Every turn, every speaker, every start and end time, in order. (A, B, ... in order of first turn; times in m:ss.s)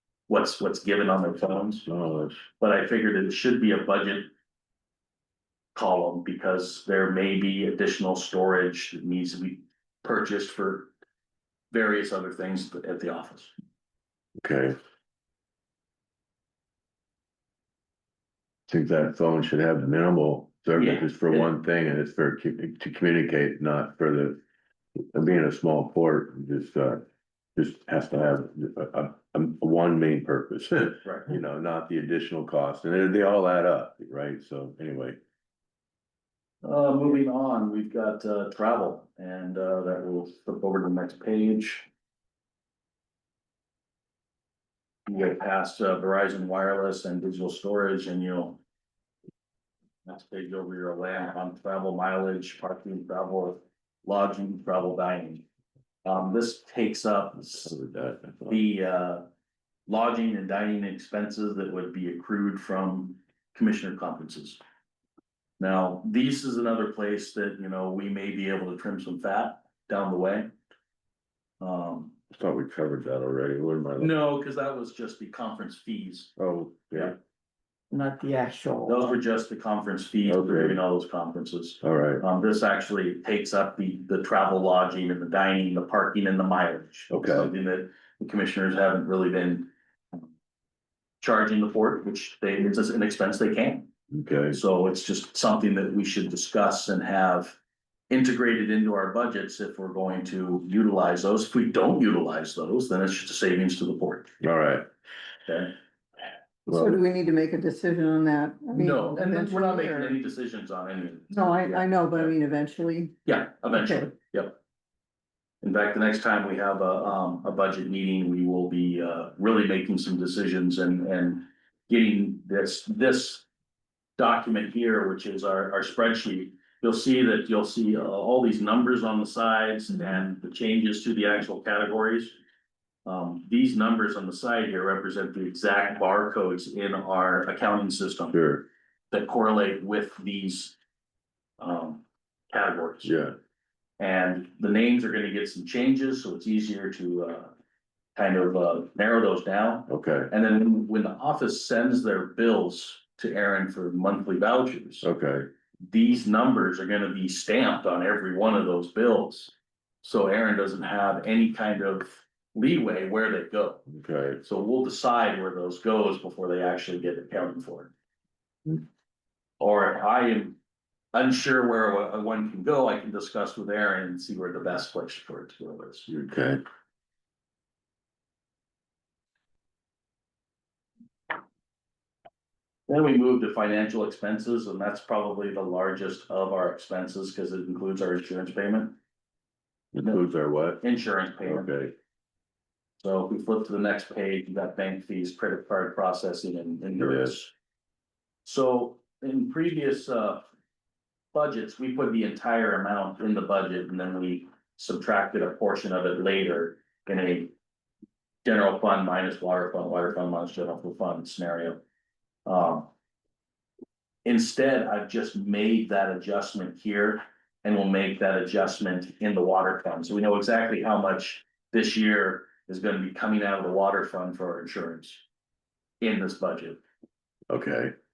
0:00.3-0:01.9 A
0:01.9-0:02.4 B
0:02.6-0:04.3 A
0:05.8-0:10.9 A
0:11.7-0:13.5 A
0:14.4-0:14.8 B
0:18.7-0:24.4 B
0:20.8-0:21.5 A
0:25.1-0:27.0 B
0:27.6-0:35.2 B
0:31.0-0:31.3 A
0:36.6-0:41.9 A
0:45.1-0:48.6 A
0:50.0-0:55.4 A
0:56.0-0:57.8 A
0:57.5-0:58.6 B
0:58.5-0:59.2 A
0:59.9-1:04.6 A
1:05.6-1:10.5 A
1:11.6-1:12.2 A
1:12.3-1:14.1 B
1:14.0-1:16.3 A
1:16.4-1:17.2 B
1:17.9-1:18.9 C
1:18.8-1:29.7 A
1:20.2-1:20.8 B
1:21.8-1:22.2 B
1:27.1-1:27.5 B
1:31.2-1:33.9 A
1:34.1-1:34.6 B
1:34.5-1:37.6 A
1:38.1-1:44.3 A
1:44.4-1:44.9 B
1:45.5-1:45.8 A
1:46.7-1:47.0 B
1:46.7-1:50.2 C
1:48.7-1:52.3 A
1:51.3-1:53.2 C
1:53.2-1:54.6 A
1:53.7-1:54.1 C
1:55.6-2:03.5 A
2:04.2-2:12.4 A
2:13.0-2:18.4 A
2:18.3-2:18.7 B
2:19.1-2:20.8 A
2:21.6-2:23.1 A
2:23.0-2:23.4 B
2:24.0-2:27.5 A
2:28.2-2:35.1 A
2:29.9-2:30.3 B
2:35.0-2:35.5 B
2:35.8-2:43.9 A
2:43.9-2:44.4 B
2:44.4-2:47.9 A
2:49.6-2:50.6 A
2:51.1-2:56.1 A
2:56.1-2:56.6 B
3:02.9-3:09.0 A
3:09.9-3:10.8 B
3:10.8-3:11.7 A
3:11.4-3:12.0 B
3:13.0-3:17.5 A
3:17.0-3:17.4 B
3:18.4-3:20.5 A
3:21.3-3:27.5 A
3:28.4-3:31.8 A
3:32.5-3:32.9 A
3:34.2-3:45.2 A
3:46.0-3:46.8 A
3:47.5-3:47.9 B